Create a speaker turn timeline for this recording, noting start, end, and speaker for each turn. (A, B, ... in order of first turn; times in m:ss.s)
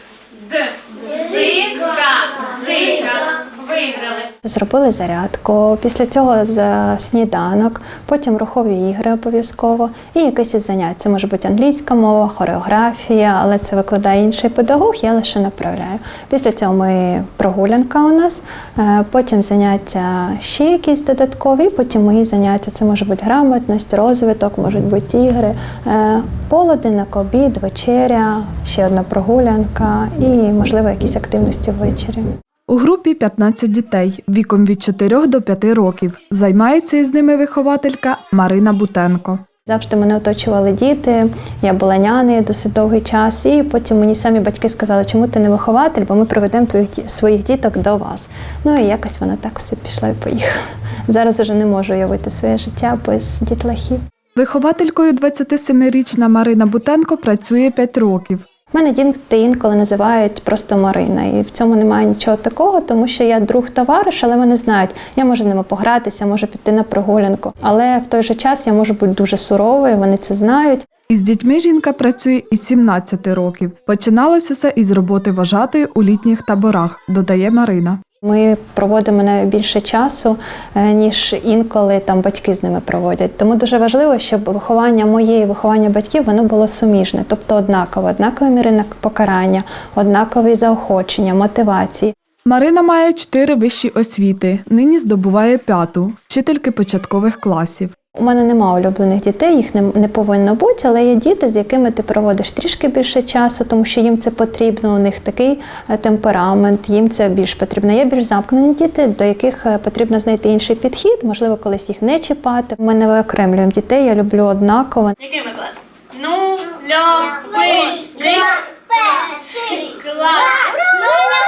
0:01.0-0:04.3 A
0:04.4-0:32.2 B
0:32.7-0:39.4 C
0:39.6-0:50.5 B
0:51.1-0:54.0 B
0:54.4-0:58.4 C
0:58.7-1:10.9 B
1:11.1-1:18.0 C
1:18.2-1:32.1 B
1:32.4-1:37.9 C
1:38.1-1:55.2 B
1:55.2-2:01.1 A